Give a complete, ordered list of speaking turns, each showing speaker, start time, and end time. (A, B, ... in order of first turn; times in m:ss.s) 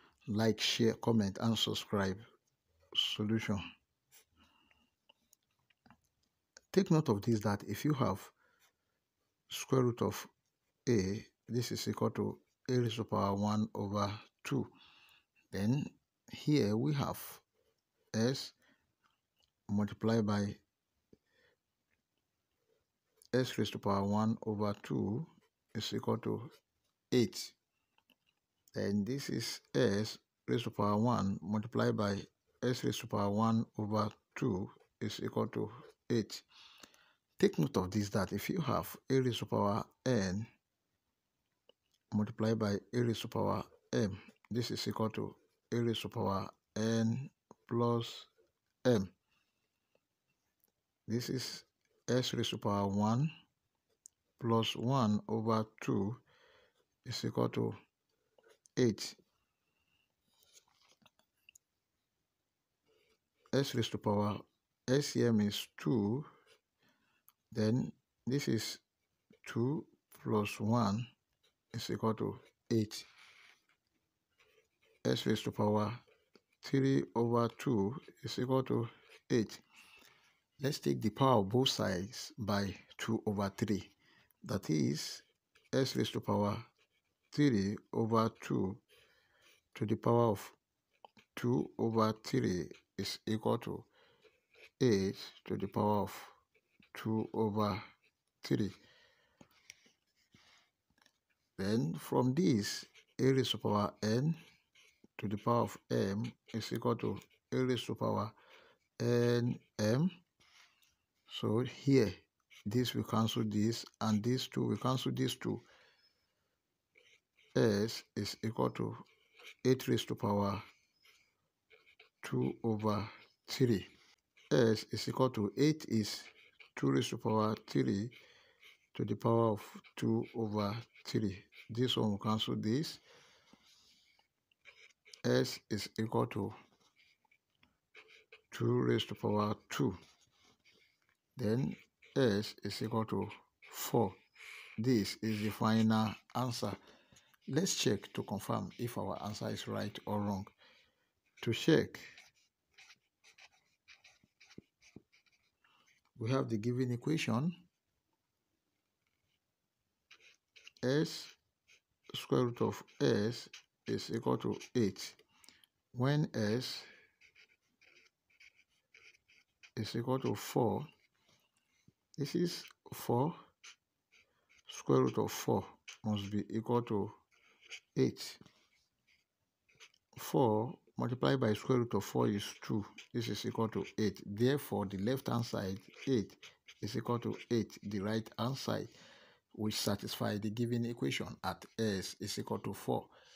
0:00.3-0:02.2 A
0:02.9-0:03.6 A
0:06.7-0:08.3 A
0:09.5-0:10.3 A
0:10.9-0:14.7 A
0:15.5-0:17.4 A
0:18.1-0:18.5 A
0:19.7-0:20.6 A
0:23.3-0:26.5 A
0:27.1-0:27.6 A
0:28.8-0:36.4 A
0:37.4-0:40.5 A
0:42.1-0:48.3 A
0:48.8-0:49.1 A
0:51.1-0:53.3 A
0:54.4-0:56.2 A
0:57.0-0:57.8 A
0:58.8-0:59.2 A
1:03.5-1:06.3 A
1:07.5-1:08.8 A
1:09.4-1:11.1 A
1:11.7-1:13.1 A
1:15.0-1:16.0 A
1:16.6-1:19.6 A
1:20.6-1:23.9 A
1:24.4-1:26.7 A
1:27.3-1:28.8 A
1:29.7-1:30.6 A
1:31.4-1:33.9 A
1:34.8-1:36.3 A
1:36.9-1:37.8 A
1:38.4-1:38.8 A
1:41.6-1:44.4 A
1:45.2-1:48.3 A
1:49.0-1:50.1 A
1:51.3-1:55.6 A
1:57.6-1:59.0 A
1:59.6-2:00.6 A
2:02.2-2:03.9 A
2:04.5-2:08.2 A
2:08.9-2:13.0 A
2:15.2-2:16.6 A
2:18.5-2:20.0 A
2:21.4-2:24.2 A
2:24.8-2:26.8 A
2:27.5-2:30.5 A
2:31.4-2:32.0 A
2:36.2-2:37.6 A
2:40.8-2:41.3 A
2:42.1-2:45.2 A
2:45.9-2:46.9 A
2:49.8-2:50.9 A
2:52.2-2:53.4 A
2:54.7-2:57.2 A
2:58.0-2:58.4 A
3:00.2-3:08.9 A
3:09.5-3:13.1 A